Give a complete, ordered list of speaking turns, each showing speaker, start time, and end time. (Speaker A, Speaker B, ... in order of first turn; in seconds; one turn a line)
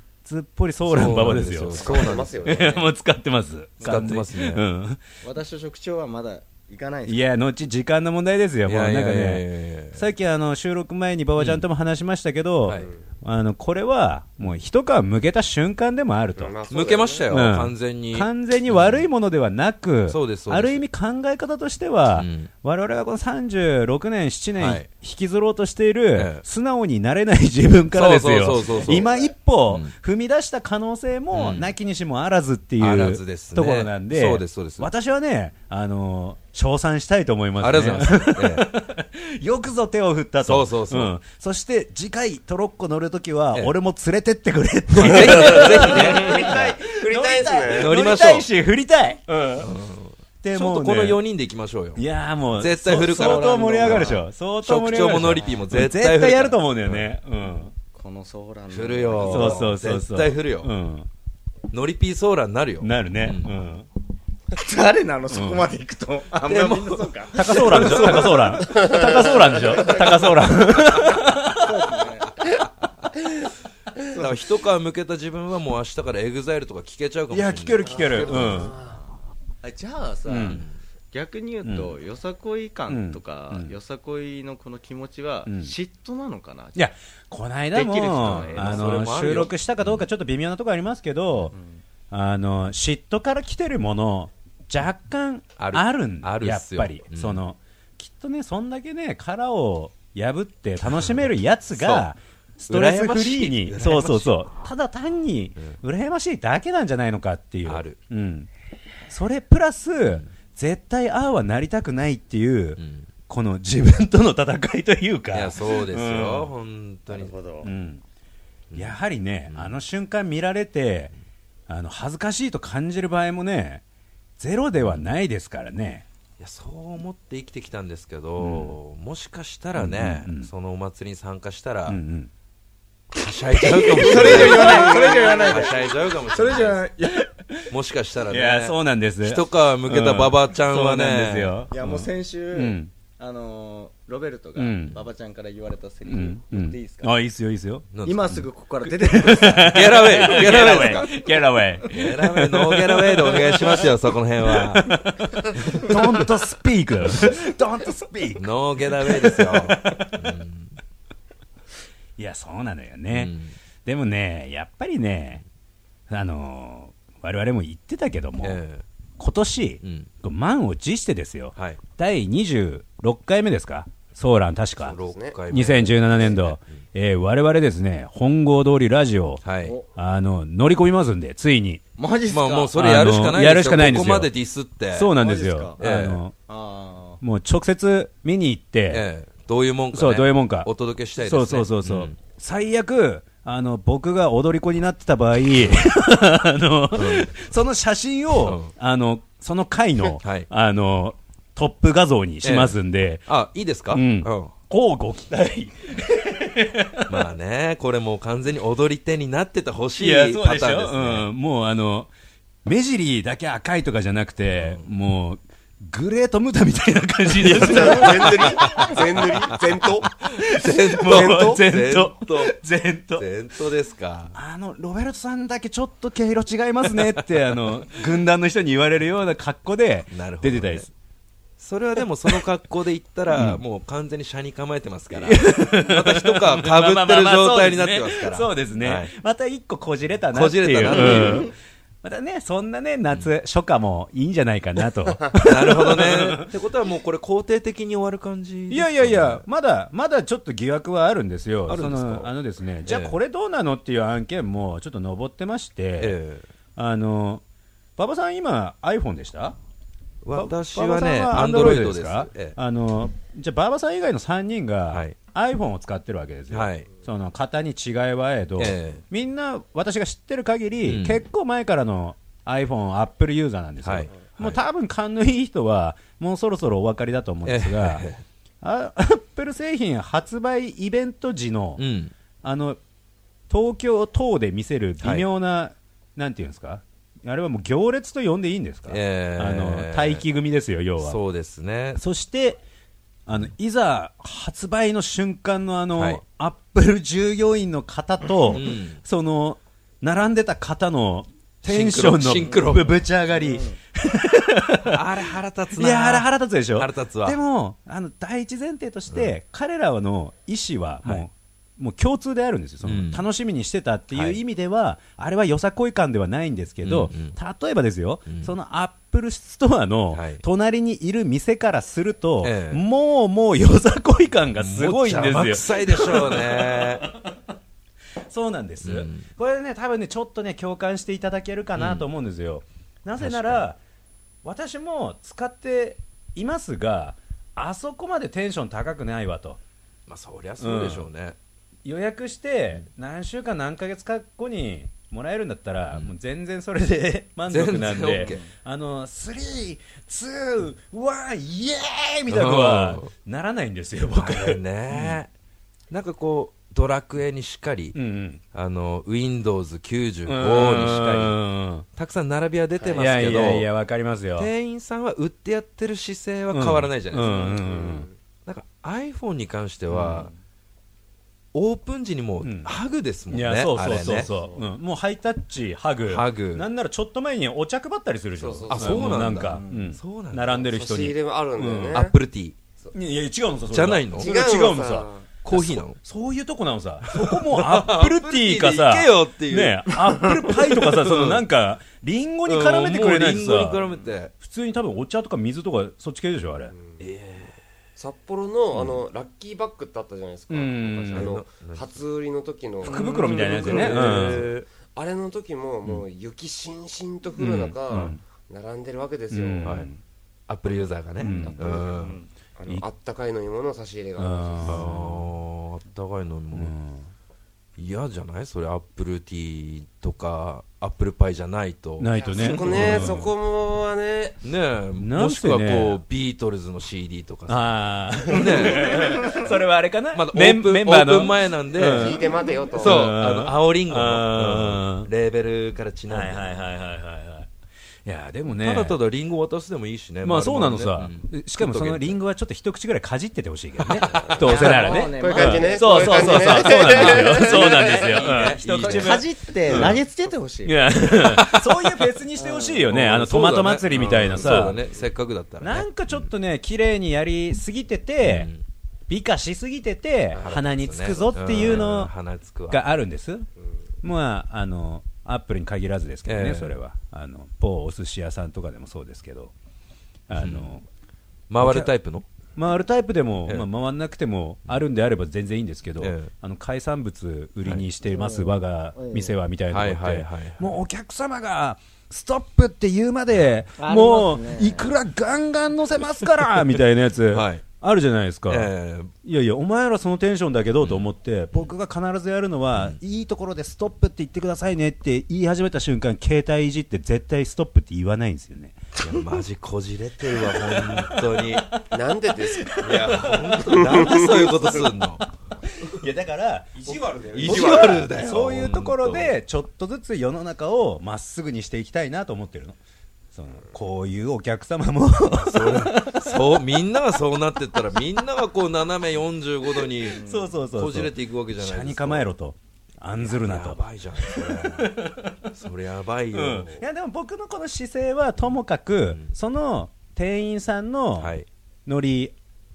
Speaker A: 0.2-5.0
Speaker B: 0.9-2.7
Speaker C: 1.7-2.9
Speaker B: 3.8-4.6
Speaker D: 3.8-4.1
Speaker D: 5.2-7.3
Speaker A: 7.1-16.5
Speaker B: 8.7-10.1
Speaker B: 11.4-11.7
Speaker C: 16.4-17.3
Speaker B: 16.7-19.1
Speaker A: 17.3-49.7
Speaker B: 20.1-20.8
Speaker B: 22.1-22.5
Speaker B: 24.6-24.9
Speaker B: 26.1-26.4
Speaker B: 27.9-29.1
Speaker D: 28.8-29.3
Speaker B: 31.3-31.7
Speaker B: 32.8-34.9
Speaker B: 37.6-38.7
Speaker B: 40.4-41.1
Speaker B: 44.9-46.5
Speaker C: 45.3-47.9
Speaker B: 47.7-48.5
Speaker B: 49.6-57.1
Speaker A: 50.4-51.2
Speaker A: 52.0-57.7
Speaker D: 52.9-54.3
Speaker D: 55.1-55.6
Speaker D: 57.9-59.8
Speaker B: 58.7-60.7
Speaker A: 59.2-61.1
Speaker B: 61.7-63.5
Speaker A: 62.8-63.9
Speaker D: 64.5-72.4
Speaker A: 65.3-65.7
Speaker B: 66.4-68.6
Speaker A: 67.3-71.9
Speaker B: 74.1-78.4
Speaker A: 77.3-78.8
Speaker C: 77.8-79.0
Speaker D: 78.0-79.0
Speaker D: 79.6-86.9
Speaker A: 80.3-80.6
Speaker A: 81.6-82.0
Speaker A: 82.9-83.7
Speaker A: 85.5-85.7
Speaker A: 86.8-91.5
Speaker D: 87.7-89.1
Speaker B: 88.3-90.0
Speaker A: 92.1-108.5
Speaker B: 95.6-97.4
Speaker B: 101.8-102.1
Speaker B: 102.7-104.3
Speaker B: 107.7-108.0
Speaker A: 109.1-116.5
Speaker B: 112.8-113.1
Speaker B: 115.3-117.3
Speaker D: 117.2-117.7
Speaker A: 117.6-118.0
Speaker B: 118.7-119.0
Speaker A: 118.8-121.1
Speaker A: 121.7-123.8
Speaker A: 124.4-126.0
Speaker B: 126.4-132.0
Speaker A: 128.4-128.8
Speaker A: 129.8-130.5
Speaker A: 131.9-132.3
Speaker B: 133.1-136.9
Speaker D: 133.6-137.3
Speaker A: 134.1-135.2
Speaker B: 137.7-141.6
Speaker A: 138.3-142.9
Speaker D: 141.7-147.1
Speaker A: 144.6-145.0
Speaker A: 146.1-153.9
Speaker B: 147.9-148.3
Speaker D: 148.0-151.3
Speaker B: 149.6-151.1
Speaker B: 151.9-154.9
Speaker A: 154.4-160.1
Speaker B: 155.6-155.9
Speaker B: 158.4-160.7
Speaker A: 162.2-163.3
Speaker B: 163.1-163.5
Speaker A: 163.8-165.4
Speaker A: 166.1-168.6
Speaker B: 168.4-168.8
Speaker A: 169.2-175.0
Speaker B: 169.8-170.1
Speaker B: 174.8-176.6
Speaker C: 174.9-175.4
Speaker A: 175.5-179.4
Speaker B: 179.4-179.8
Speaker A: 179.9-181.8
Speaker D: 182.0-182.9
Speaker B: 182.3-185.2
Speaker A: 182.8-184.3
Speaker A: 184.9-186.3
Speaker D: 185.2-185.8
Speaker B: 185.8-186.2
Speaker D: 186.5-187.2
Speaker A: 187.2-189.1
Speaker B: 188.9-192.2
Speaker A: 189.9-203.2
Speaker B: 196.9-197.3
Speaker B: 198.4-198.7
Speaker B: 200.2-200.5
Speaker B: 202.4-204.5
Speaker A: 203.9-207.3
Speaker B: 207.1-211.3
Speaker A: 210.0-212.1
Speaker A: 212.7-219.0
Speaker B: 217.4-222.6
Speaker C: 217.5-220.1
Speaker D: 218.6-218.9
Speaker A: 220.0-223.3
Speaker D: 221.1-221.6
Speaker B: 223.2-224.4
Speaker A: 224.3-230.9
Speaker B: 230.1-230.9
Speaker B: 231.6-239.1
Speaker A: 233.3-233.6
Speaker A: 235.1-246.5
Speaker B: 240.3-241.5
Speaker B: 245.4-249.4
Speaker A: 248.7-256.2
Speaker B: 251.7-252.3
Speaker B: 252.8-253.2
Speaker B: 256.0-256.5
Speaker A: 256.8-257.4
Speaker A: 258.0-259.6
Speaker B: 260.2-262.6
Speaker A: 260.3-278.1
Speaker B: 264.9-265.2
Speaker B: 266.5-266.9
Speaker B: 268.6-269.0
Speaker B: 270.9-271.2
Speaker B: 273.8-274.6
Speaker B: 277.4-278.2
Speaker A: 278.6-281.8
Speaker B: 281.8-282.1
Speaker A: 282.4-282.8
Speaker A: 283.5-291.2
Speaker B: 285.0-285.3
Speaker B: 288.9-290.2
Speaker B: 291.0-292.0
Speaker A: 292.0-292.6
Speaker A: 293.3-327.4
Speaker B: 296.0-296.2
Speaker B: 298.5-299.0
Speaker B: 301.6-302.9
Speaker D: 303.4-303.8
Speaker B: 304.8-307.4
Speaker B: 312.8-313.2
Speaker B: 314.1-314.4
Speaker B: 316.8-317.4
Speaker B: 320.1-320.4
Speaker B: 322.4-322.8
Speaker B: 324.6-327.1
Speaker A: 328.2-333.8
Speaker B: 328.8-329.3
Speaker B: 331.8-332.1
Speaker B: 333.2-333.6
Speaker A: 334.4-339.6
Speaker B: 340.1-341.4
Speaker A: 340.6-341.1
Speaker A: 341.9-355.2
Speaker B: 347.5-348.4
Speaker D: 348.2-348.5
Speaker B: 352.3-353.1
Speaker B: 354.1-355.3
Speaker B: 355.9-358.0
Speaker A: 357.9-358.4
Speaker B: 358.5-361.4
Speaker A: 360.3-361.9
Speaker B: 362.0-363.7
Speaker A: 362.8-364.5
Speaker B: 364.4-367.9
Speaker A: 366.5-368.1
Speaker C: 367.7-368.1
Speaker B: 368.5-370.3
Speaker A: 369.9-370.3
Speaker B: 371.5-374.3
Speaker A: 372.4-372.7
Speaker A: 373.3-382.0
Speaker B: 376.1-376.7
Speaker C: 378.4-379.3
Speaker B: 378.7-380.7
Speaker D: 379.4-379.9
Speaker C: 380.6-382.1
Speaker B: 381.9-382.6
Speaker A: 382.9-393.9
Speaker B: 383.7-384.3
Speaker C: 384.1-385.2
Speaker B: 385.4-386.0
Speaker B: 387.1-391.4
Speaker B: 392.4-394.3
Speaker A: 394.4-396.7
Speaker B: 397.0-397.5
Speaker C: 398.0-409.9
Speaker A: 400.5-401.3
Speaker B: 401.1-401.9
Speaker A: 402.8-404.5
Speaker B: 402.9-404.7
Speaker B: 407.4-407.7
Speaker A: 407.4-408.2
Speaker A: 409.3-410.0
Speaker B: 410.5-412.2
Speaker A: 411.2-411.8
Speaker C: 411.2-414.9
Speaker A: 414.2-415.3
Speaker B: 414.6-416.7
Speaker A: 416.5-417.0
Speaker B: 417.8-423.2
Speaker A: 422.0-423.3
Speaker C: 422.2-424.4
Speaker B: 424.4-429.6
Speaker A: 425.0-426.0
Speaker A: 427.5-435.1
Speaker B: 430.1-436.6
Speaker C: 431.8-433.1
Speaker A: 436.1-437.5
Speaker A: 438.1-439.0
Speaker B: 438.5-442.2
Speaker A: 440.2-450.0
Speaker B: 443.9-444.4
Speaker C: 444.2-448.3
Speaker D: 444.4-446.5
Speaker B: 446.5-450.0
Speaker D: 448.7-451.0
Speaker A: 450.6-454.8
Speaker B: 451.1-452.1
Speaker D: 452.4-452.8
Speaker B: 452.8-456.2
Speaker A: 455.6-458.5
Speaker B: 458.2-458.6
Speaker A: 459.1-462.1
Speaker B: 460.4-462.8
Speaker A: 462.7-463.5
Speaker A: 464.0-469.5
Speaker B: 466.3-466.8
Speaker A: 470.3-470.8
Speaker B: 470.4-470.7
Speaker B: 471.5-472.2
Speaker A: 471.6-471.9
Speaker A: 472.6-488.7
Speaker B: 476.0-476.3
Speaker D: 478.0-479.4
Speaker B: 479.7-480.7
Speaker D: 483.8-484.9
Speaker B: 486.4-486.7
Speaker B: 487.3-487.6
Speaker B: 488.5-489.1
Speaker A: 489.2-499.2
Speaker B: 490.8-491.1
Speaker B: 499.0-501.8
Speaker A: 500.6-501.6
Speaker C: 501.9-505.0
Speaker A: 502.6-504.6
Speaker B: 502.7-505.3
Speaker A: 505.8-512.8
Speaker D: 507.0-507.7
Speaker C: 507.1-508.0
Speaker B: 507.3-509.3
Speaker A: 513.3-516.6
Speaker B: 515.4-522.3
Speaker A: 520.0-525.5
Speaker D: 520.1-520.5
Speaker B: 523.2-525.0
Speaker B: 525.5-526.8
Speaker A: 526.3-532.3
Speaker B: 531.2-531.5